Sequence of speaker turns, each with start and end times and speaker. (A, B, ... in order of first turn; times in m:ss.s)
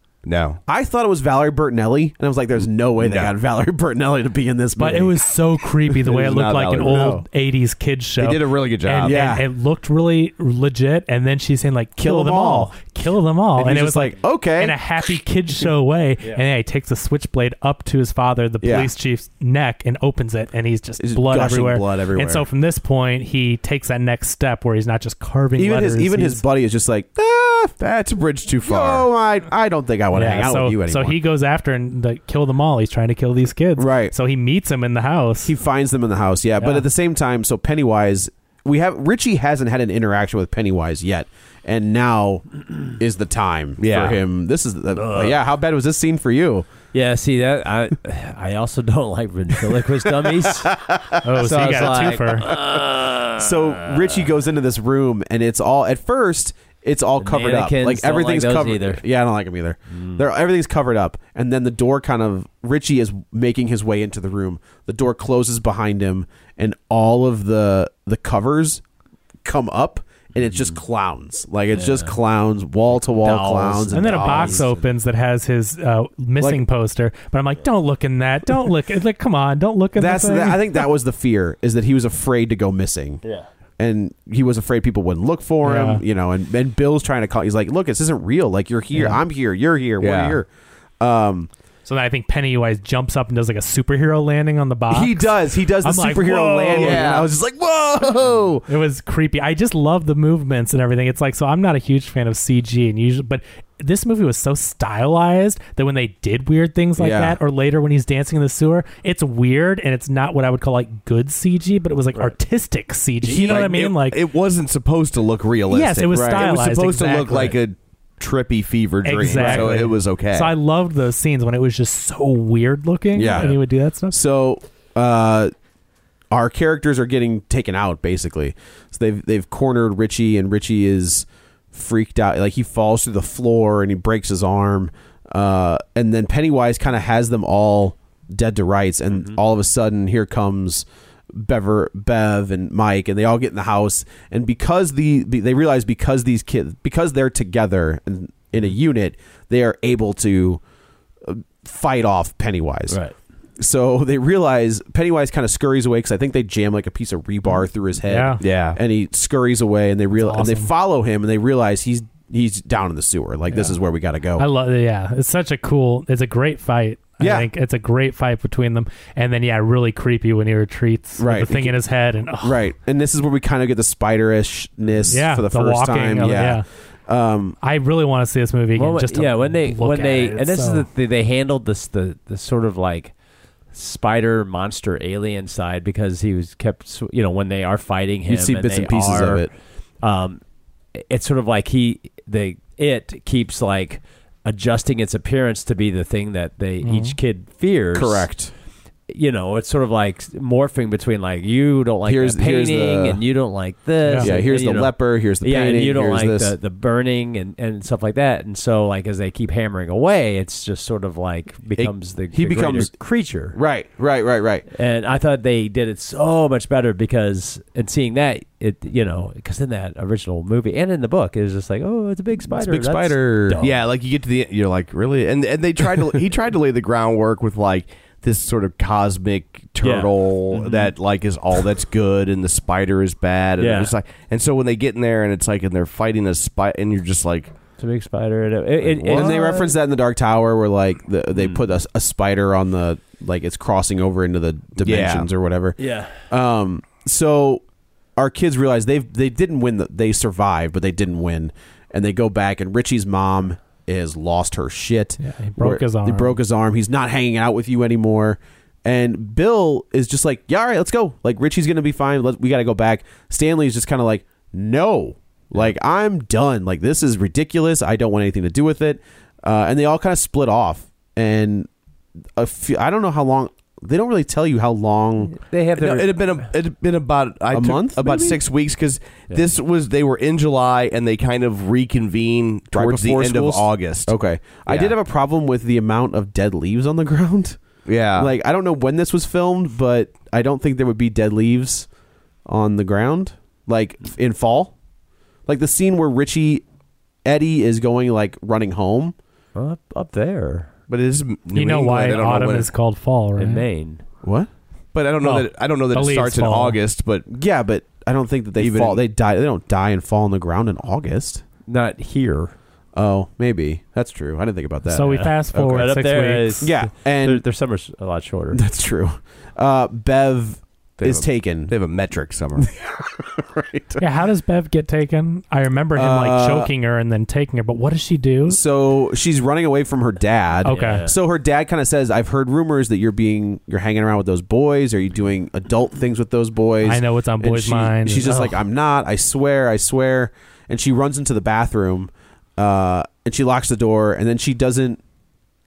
0:00.2-0:00.6 A
0:00.7-0:05.2 B
0:03.0-0:03.3 A
0:04.8-0:26.4 C
0:06.0-0:07.2 A
0:06.8-0:07.2 B
0:08.2-0:09.2 A
0:09.0-0:09.5 B
0:12.0-0:12.7 B
0:13.6-0:14.8 B
0:18.6-0:18.9 B
0:21.0-0:22.5 B
0:25.6-0:27.8 B
0:27.8-0:29.1 A
0:28.6-0:31.2 B
0:30.1-0:35.5 C
0:33.8-0:34.1 B
0:35.4-0:46.7 B
0:36.6-0:36.9 C
0:43.8-0:44.2 A
0:45.0-0:45.4 D
0:46.9-0:50.7 D
0:51.2-0:52.5 C
0:51.4-0:54.2 D
0:52.6-0:52.8 B
0:53.3-1:08.8 B
0:57.2-0:59.0 D
0:59.9-1:00.2 D
1:09.4-1:14.6 B
1:10.4-1:10.8 D
1:11.7-1:12.2 D
1:13.2-1:14.8 D
1:13.9-1:20.8 C
1:20.0-1:23.2 B
1:23.8-1:30.5 B
1:25.6-1:26.0 C
1:28.9-1:29.2 C
1:30.0-1:30.4 A
1:31.0-1:31.5 B
1:31.8-1:37.1 C
1:34.9-1:38.6 B
1:36.7-1:38.6 A
1:38.7-1:54.2 C
1:47.0-1:47.4 B
1:53.2-2:00.6 A
1:55.7-1:57.6 C
1:56.1-1:56.5 B
1:59.0-2:04.2 C
1:59.3-1:59.7 D
2:03.2-2:03.6 B
2:04.1-2:05.5 B
2:06.3-2:30.6 B
2:19.1-2:19.4 D
2:31.2-2:33.0 B
2:32.9-2:33.1 D
2:33.6-2:44.4 B
2:38.1-2:38.4 C
2:38.4-2:38.8 A
2:40.2-2:40.7 C
2:43.5-2:43.8 C
2:44.4-2:52.6 C
2:47.2-2:47.5 B
2:51.2-2:51.8 B
2:52.4-2:57.6 B
2:55.1-2:56.6 C
2:57.6-3:00.9 C
2:58.8-3:03.1 D
3:03.7-3:09.5 D
3:08.3-3:09.5 B
3:10.0-3:10.4 D
3:11.0-3:18.3 D
3:16.8-3:17.2 C
3:17.9-3:18.5 B
3:19.1-3:33.6 D
3:22.1-3:23.2 B
3:24.0-3:24.3 C
3:24.2-3:26.5 B
3:32.3-3:32.9 B
3:33.5-3:34.7 B
3:34.7-3:43.8 D
3:42.5-3:43.6 B
3:43.6-3:57.5 A
3:49.8-3:50.9 D
3:53.6-3:54.0 D
3:57.8-3:59.8 D
3:58.8-3:59.6 A
3:59.1-4:05.8 B
4:01.4-4:01.6 D
4:04.8-4:05.3 A
4:05.8-4:06.2 D
4:06.3-4:07.6 B
4:08.2-4:31.7 B
4:15.2-4:16.4 C
4:32.4-4:35.3 B
4:35.3-4:36.4 D
4:35.8-4:44.2 A
4:37.5-4:38.4 B
4:42.7-4:47.6 B
4:44.7-4:44.9 A
4:47.9-4:48.3 A
4:48.2-4:51.9 B
4:52.5-4:54.7 B
4:55.5-4:56.6 B
4:57.2-4:59.2 B
4:59.6-5:00.7 D
5:00.9-5:02.7 A
5:01.5-5:03.7 C
5:03.4-5:04.0 D
5:04.2-5:04.5 B
5:04.9-5:07.3 A
5:05.2-5:06.8 C
5:07.3-5:11.4 B
5:08.6-5:09.0 A
5:11.7-5:12.5 D
5:13.0-5:15.9 B
5:14.9-5:16.7 C
5:15.1-5:18.6 D
5:16.6-5:17.4 B
5:18.5-5:21.7 B
5:21.0-5:22.7 A
5:22.6-5:24.0 B
5:24.0-5:28.6 C
5:26.0-5:26.7 B
5:28.5-5:45.0 B
5:30.6-5:31.0 C
5:30.7-5:31.2 D
5:36.8-5:38.6 C